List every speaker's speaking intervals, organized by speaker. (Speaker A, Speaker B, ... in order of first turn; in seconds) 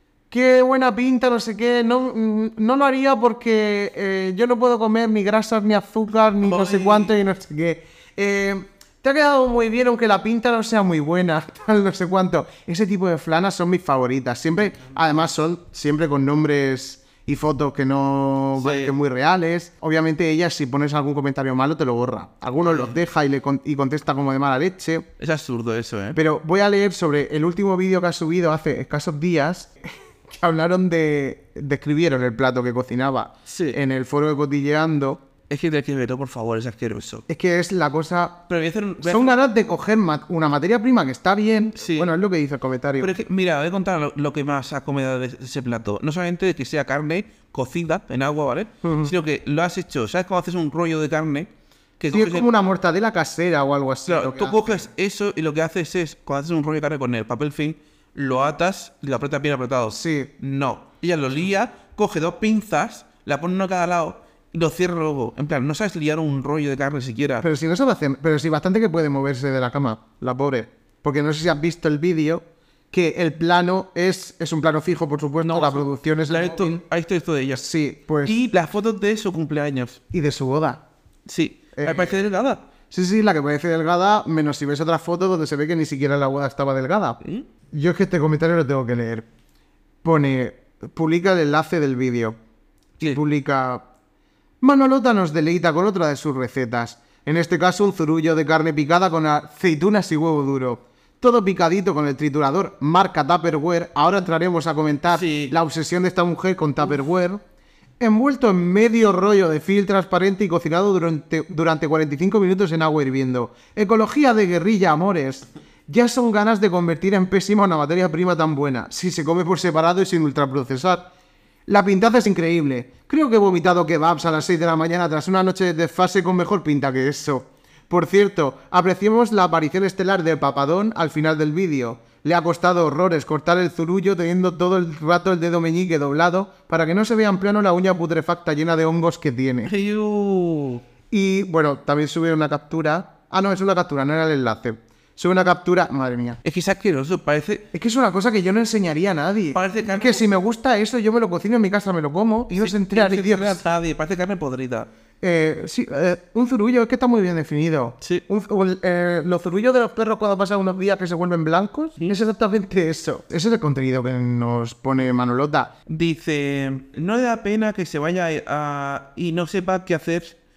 Speaker A: 0.3-25.1, 26.1-35.2, 37.3-38.5, 39.0-43.1, 48.8-49.1, 52.1-54.9, 59.9-60.3, 67.4-76.8, 77.6-78.4, 80.1-80.8, 81.8-82.1, 82.9-87.2, 87.7-89.3, 90.0-92.4, 93.0-93.8, 94.6-107.4, 108.0-121.1, 121.7-139.7, 141.1-146.4, 147.7-153.6, 155.2-165.7
Speaker B: 6.4-7.1, 18.6-18.9, 22.6-22.9, 25.2-26.2, 33.5-33.8, 35.5-37.2, 38.5-39.3, 41.8-42.1, 43.0-52.5, 54.1-67.4, 75.4-77.6, 78.2-80.0, 81.2-82.6, 105.1-105.5, 139.7-140.8, 146.4-147.7, 149.5-150.2, 152.5-154.9, 165.9-170.4